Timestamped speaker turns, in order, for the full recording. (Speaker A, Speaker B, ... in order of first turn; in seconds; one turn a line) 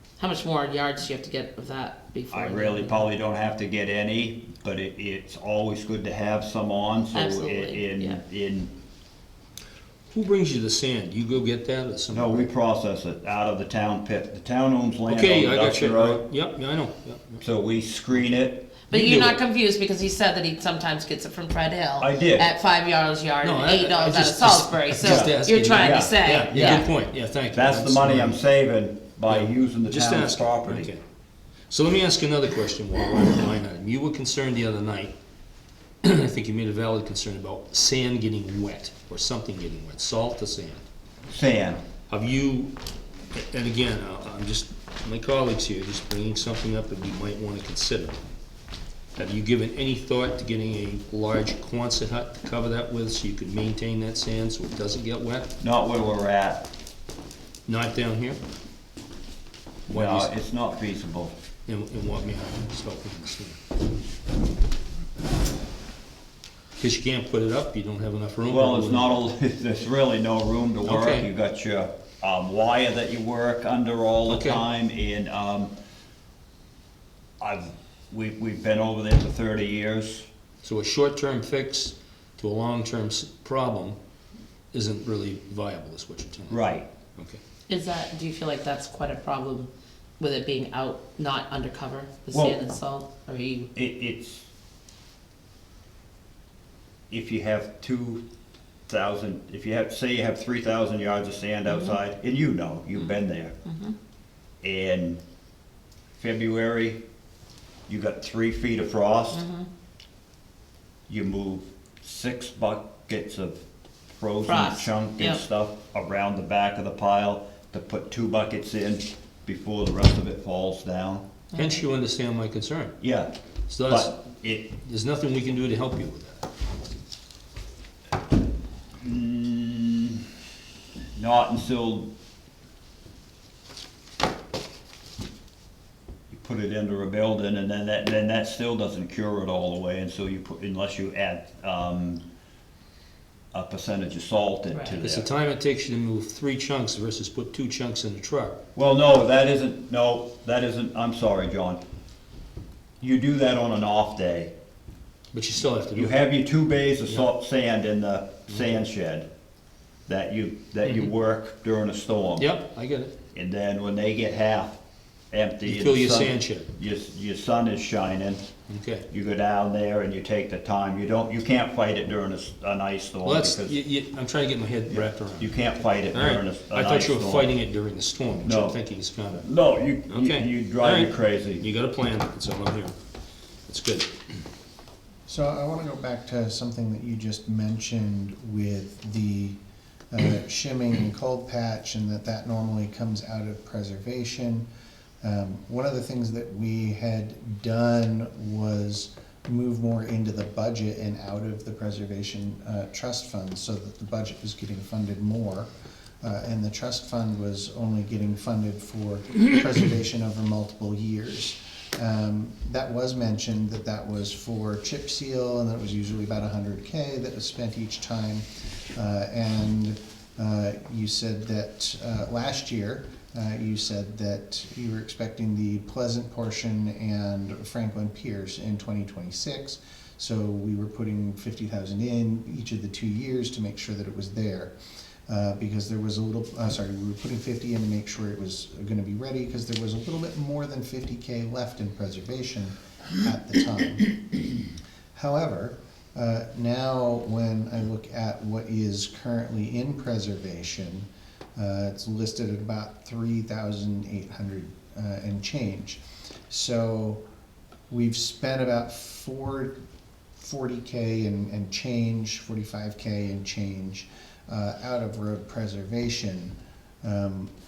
Speaker A: 0.2-3.1
Speaker B: 2.3-8.7
Speaker A: 7.1-8.2
Speaker C: 10.1-12.5
Speaker B: 12.1-16.2
Speaker C: 15.1-17.4
Speaker B: 17.4-18.6
Speaker A: 18.9-26.9
Speaker C: 18.9-19.4
Speaker B: 22.0-22.4
Speaker C: 23.4-28.4
Speaker B: 25.0-26.9
Speaker B: 27.5-30.9
Speaker C: 29.3-31.0
Speaker C: 31.7-35.1
Speaker C: 36.0-40.8
Speaker B: 41.3-41.8
Speaker C: 42.1-42.7
Speaker C: 43.3-48.2
Speaker C: 49.1-55.5
Speaker B: 55.6-56.6
Speaker C: 57.7-58.4
Speaker B: 59.9-61.3
Speaker C: 59.9-60.3
Speaker C: 61.7-63.6
Speaker C: 66.8-69.1
Speaker B: 68.5-75.7
Speaker C: 70.8-71.3
Speaker C: 74.3-74.6
Speaker B: 77.4-80.2
Speaker C: 80.6-84.0
Speaker C: 84.7-86.6
Speaker B: 86.5-86.9
Speaker A: 87.7-93.7
Speaker B: 92.3-92.6
Speaker B: 93.7-94.5
Speaker B: 97.1-98.2
Speaker B: 98.9-103.5
Speaker A: 101.7-102.0
Speaker A: 103.0-104.0
Speaker B: 104.6-105.2
Speaker B: 106.2-107.0
Speaker B: 107.9-109.4
Speaker A: 109.3-109.7
Speaker B: 111.1-113.6
Speaker B: 114.1-121.2
Speaker A: 114.5-115.4
Speaker A: 121.5-121.8
Speaker C: 121.5-123.0
Speaker B: 123.0-123.3
Speaker C: 123.7-126.4
Speaker B: 123.8-124.7
Speaker B: 129.0-130.2
Speaker B: 131.2-132.1
Speaker B: 136.3-142.2
Speaker B: 143.5-145.3
Speaker A: 144.7-145.0
Speaker C: 145.0-148.6
Speaker B: 148.7-151.8
Speaker B: 153.0-154.5
Speaker C: 155.3-156.2
Speaker B: 155.9-159.3
Speaker C: 158.5-158.8
Speaker B: 160.1-162.5
Speaker C: 162.4-163.1
Speaker B: 163.3-164.8
Speaker B: 165.3-168.4
Speaker C: 165.6-166.7
Speaker C: 168.7-169.1
Speaker B: 169.1-173.8
Speaker C: 173.2-175.6
Speaker B: 174.9-177.5
Speaker C: 176.1-179.5
Speaker B: 178.4-178.8
Speaker B: 179.4-181.7
Speaker C: 180.1-182.9
Speaker C: 183.7-184.1
Speaker D: 185.3-189.6
Speaker D: 190.1-194.7
Speaker D: 195.2-205.7
Speaker D: 206.2-218.4
Speaker D: 218.9-234.7
Speaker D: 235.3-244.2
Speaker D: 245.1-257.2
Speaker D: 257.9-259.8
Speaker D: 260.4-267.5